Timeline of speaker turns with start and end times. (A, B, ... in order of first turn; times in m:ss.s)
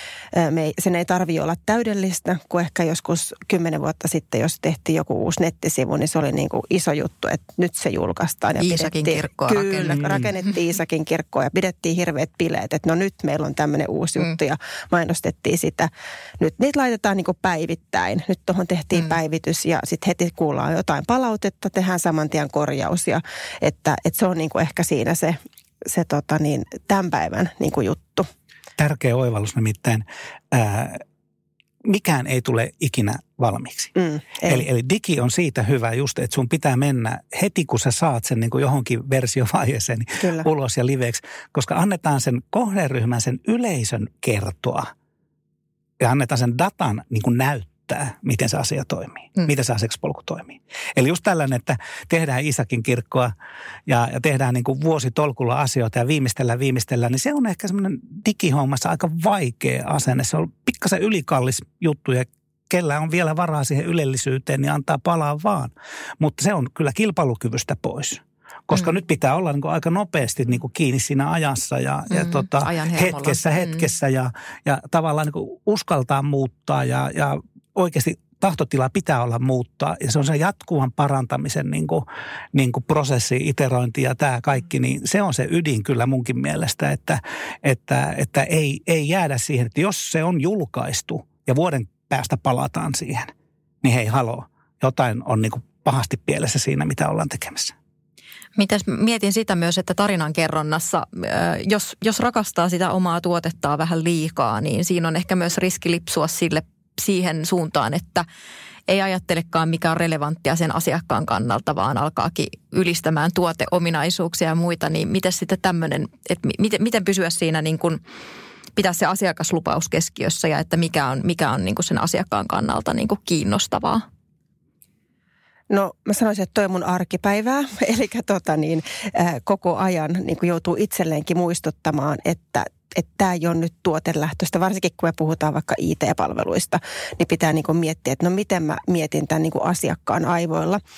0:00.3-0:28.3 A
0:08.6-0:10.2 B
0:28.8-0:31.0 C
0:31.8-0:33.9 C
0:34.0-0:34.6 A
0:34.4-0:44.9 C
0:40.2-0:40.5 A
0:46.0-0:53.3 C
0:53.9-1:37.7 C
1:12.1-1:13.8 B
1:38.6-1:48.2 B
1:48.9-1:58.0 B
1:58.8-2:04.0 B
2:05.7-2:20.8 A